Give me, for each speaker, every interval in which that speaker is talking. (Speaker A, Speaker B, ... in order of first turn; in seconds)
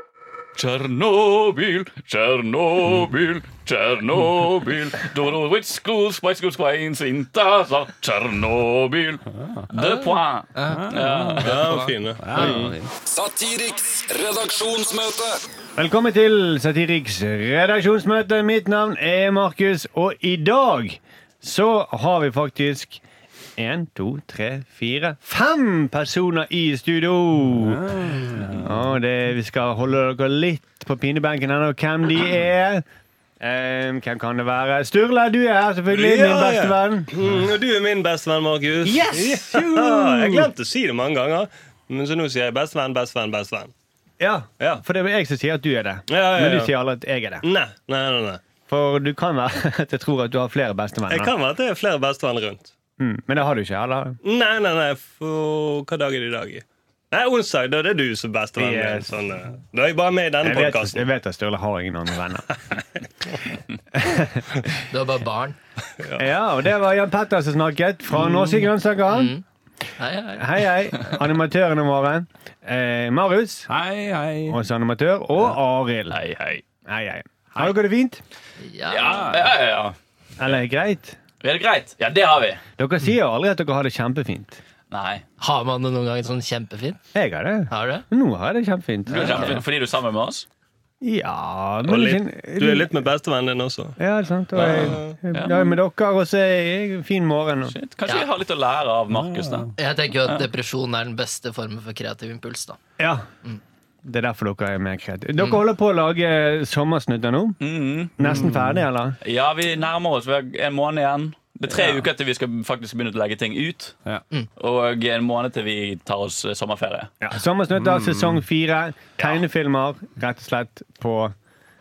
Speaker A: 0.6-11.6, 76.1-76.6, 78.9-80.0, 81.4-82.6, 84.9-85.2, 89.1-90.5, 94.5-95.8, 97.7-99.7, 107.6-108.3, 109.2-114.0, 114.6-117.1
Speaker B: 9.3-10.1, 10.6-12.9, 27.6-28.7, 73.7-74.6, 79.0-79.5, 99.1-99.7, 108.3-108.8, 111.7-112.0, 117.8-118.4
Speaker C: 11.4-12.8, 35.9-43.7, 46.1-46.7, 47.4-48.4, 51.1-52.7, 54.2-61.1, 91.9-94.0, 94.7-95.2
Speaker D: 13.1-15.4
Speaker E: 15.8-23.0, 23.6-32.8, 33.4-37.1, 38.8-40.5, 44.2-47.5, 48.7-51.3, 53.0-54.2, 58.6-59.1, 60.4-62.5, 63.9-64.5, 66.2-69.3, 70.4-73.7, 74.5-76.2, 76.9-78.2, 80.4-81.2, 82.8-84.6, 87.1-89.6, 91.0-92.9, 94.0-97.8, 103.0-103.3, 104.0-107.6, 108.2-109.2, 117.2-121.3
Speaker F: 64.9-65.6, 69.1-69.4, 70.0-70.5, 78.6-79.2, 85.4-87.0, 87.7-88.0, 99.8-102.8